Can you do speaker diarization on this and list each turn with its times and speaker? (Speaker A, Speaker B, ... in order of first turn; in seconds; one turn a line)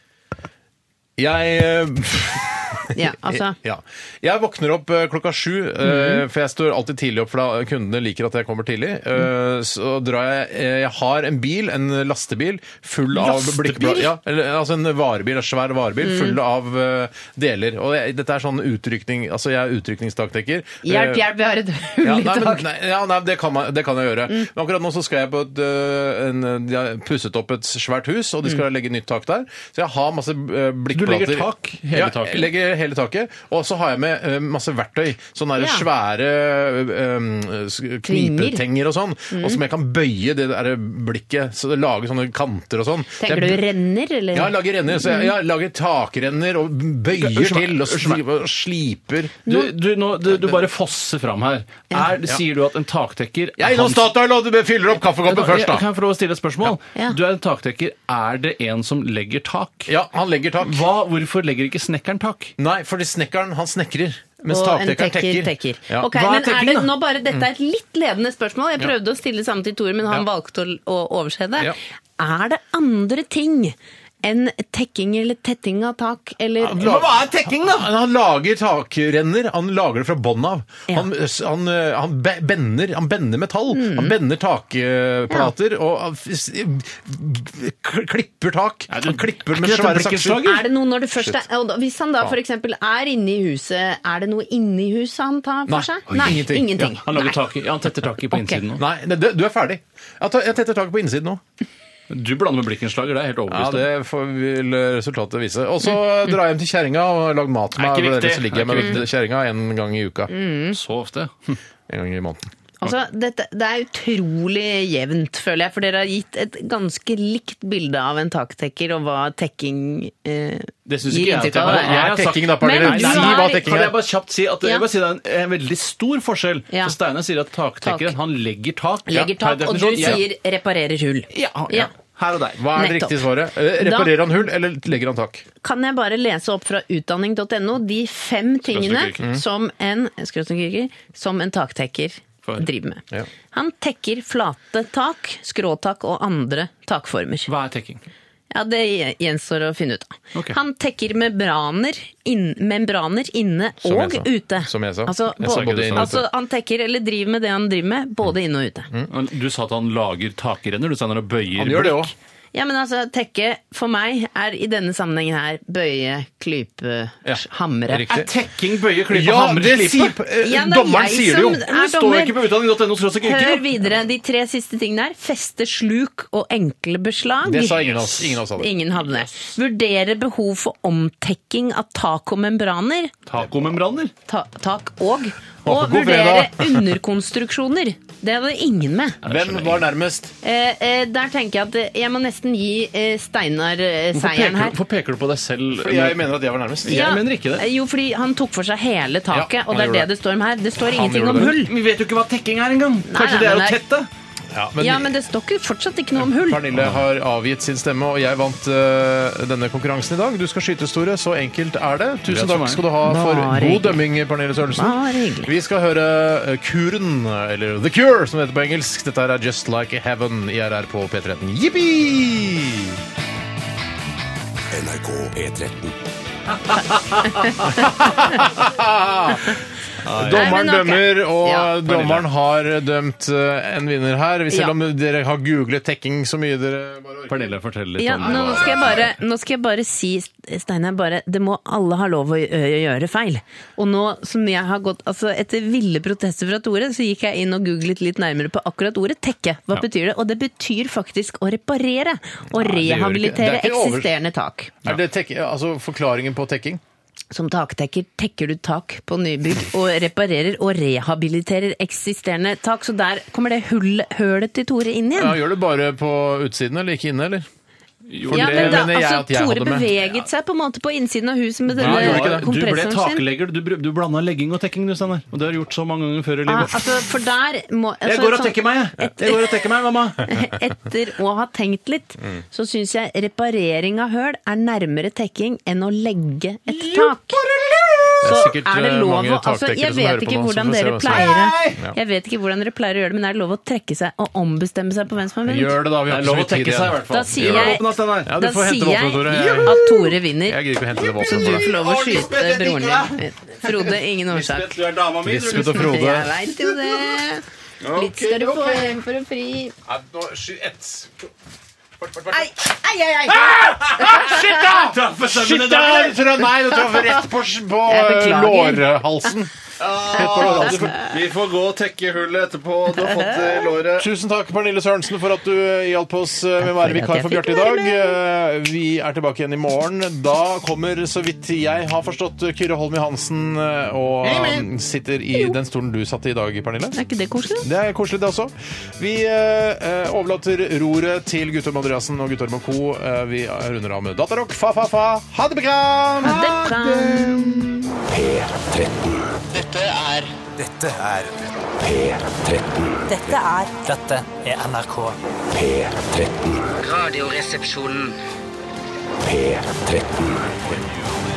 Speaker A: 1.2-21.2
Speaker B: 2.9-3.5
Speaker B: 5.8-6.2
Speaker B: 13.1-14.1
Speaker B: 16.0-16.4
Speaker B: 20.8-22.6
Speaker A: 22.0-43.6
Speaker C: 30.9-32.5
Speaker B: 35.6-35.9
Speaker B: 38.0-38.6
Speaker B: 39.3-39.6
Speaker B: 43.2-45.3
Speaker A: 44.3-49.5
Speaker C: 47.1-48.2
Speaker C: 49.5-54.1
Speaker A: 53.6-55.8
Speaker C: 55.1-59.9
Speaker A: 59.9-60.8
Speaker C: 60.6-62.5
Speaker A: 62.6-66.1
Speaker B: 64.5-77.0
Speaker C: 66.1-66.9
Speaker A: 76.6-90.5
Speaker B: 83.7-84.1
Speaker C: 88.9-90.6
Speaker B: 90.4-97.4
Speaker A: 91.2-91.4
Speaker A: 95.7-97.0
Speaker C: 97.0-98.8
Speaker B: 98.3-98.6
Speaker A: 98.8-101.4
Speaker C: 102.1-103.9
Speaker A: 103.5-110.3
Speaker C: 107.8-109.1
Speaker B: 110.3-110.8
Speaker C: 110.7-111.6
Speaker A: 111.9-112.5
Speaker B: 112.8-123.7
Speaker C: 120.8-130.2
Speaker A: 121.5-124.0
Speaker B: 127.8-128.1
Speaker B: 129.1-131.9
Speaker C: 131.3-132.6
Speaker A: 132.6-135.4
Speaker B: 132.7-134.2
Speaker B: 135.6-147.5
Speaker C: 138.7-139.3
Speaker C: 147.5-148.0
Speaker B: 148.5-158.9
Speaker A: 153.8-156.3
Speaker C: 155.4-156.2
Speaker C: 159.1-162.1
Speaker A: 161.5-162.1
Speaker B: 162.5-168.1
Speaker C: 167.9-170.1
Speaker A: 168.0-168.3
Speaker A: 169.1-171.6
Speaker B: 170.4-172.4
Speaker C: 171.4-173.8
Speaker B: 173.2-177.9
Speaker A: 177.4-178.7
Speaker B: 178.5-183.1
Speaker C: 183.3-184.1
Speaker B: 184.3-189.2
Speaker A: 185.6-186.9
Speaker C: 189.2-189.9
Speaker A: 189.2-190.3
Speaker B: 190.4-194.8
Speaker C: 194.1-196.3
Speaker A: 195.8-197.1
Speaker C: 196.8-197.7
Speaker B: 196.9-201.7
Speaker A: 199.3-200.1
Speaker A: 200.8-201.5
Speaker C: 201.4-204.1
Speaker B: 203.1-203.8
Speaker A: 204.5-205.1
Speaker B: 204.8-206.7
Speaker A: 206.3-223.0
Speaker C: 212.3-212.8
Speaker B: 213.0-214.0
Speaker B: 214.7-215.5
Speaker D: 224.7-226.0
Speaker A: 227.1-237.5
Speaker C: 230.0-230.6
Speaker B: 230.2-231.7
Speaker C: 231.8-232.3
Speaker C: 237.3-239.1
Speaker B: 238.0-254.7
Speaker A: 238.1-239.1
Speaker A: 252.5-254.1
Speaker A: 254.8-256.8
Speaker B: 257.3-265.4
Speaker A: 265.1-267.4
Speaker C: 268.1-268.9
Speaker A: 268.3-269.9
Speaker B: 268.3-273.2
Speaker C: 271.7-276.9
Speaker A: 271.8-272.4
Speaker B: 276.4-279.6
Speaker C: 278.0-280.3
Speaker B: 280.2-287.4
Speaker C: 286.7-288.1
Speaker A: 288.2-291.9
Speaker B: 288.2-295.8
Speaker C: 291.1-291.8
Speaker A: 295.4-299.8
Speaker C: 296.1-298.3
Speaker B: 297.1-304.7
Speaker C: 299.3-299.9
Speaker A: 300.4-301.7
Speaker C: 301.1-303.2
Speaker C: 304.3-306.0
Speaker A: 305.2-306.4
Speaker B: 305.5-309.7
Speaker C: 307.8-308.8
Speaker A: 309.9-311.3
Speaker A: 312.0-312.7
Speaker B: 312.3-313.4
Speaker A: 313.2-321.1
Speaker C: 313.8-316.3
Speaker B: 317.9-319.0
Speaker C: 319.8-324.1
Speaker B: 320.1-321.1
Speaker B: 322.9-323.8
Speaker A: 323.9-336.9
Speaker B: 326.6-328.1
Speaker B: 336.9-337.6
Speaker A: 337.6-347.7
Speaker B: 346.2-348.0
Speaker D: 348.1-349.9
Speaker E: 349.5-350.3
Speaker D: 350.5-357.1
Speaker B: 353.1-353.7
Speaker E: 353.2-355.1
Speaker E: 356.9-358.1
Speaker D: 359.2-360.8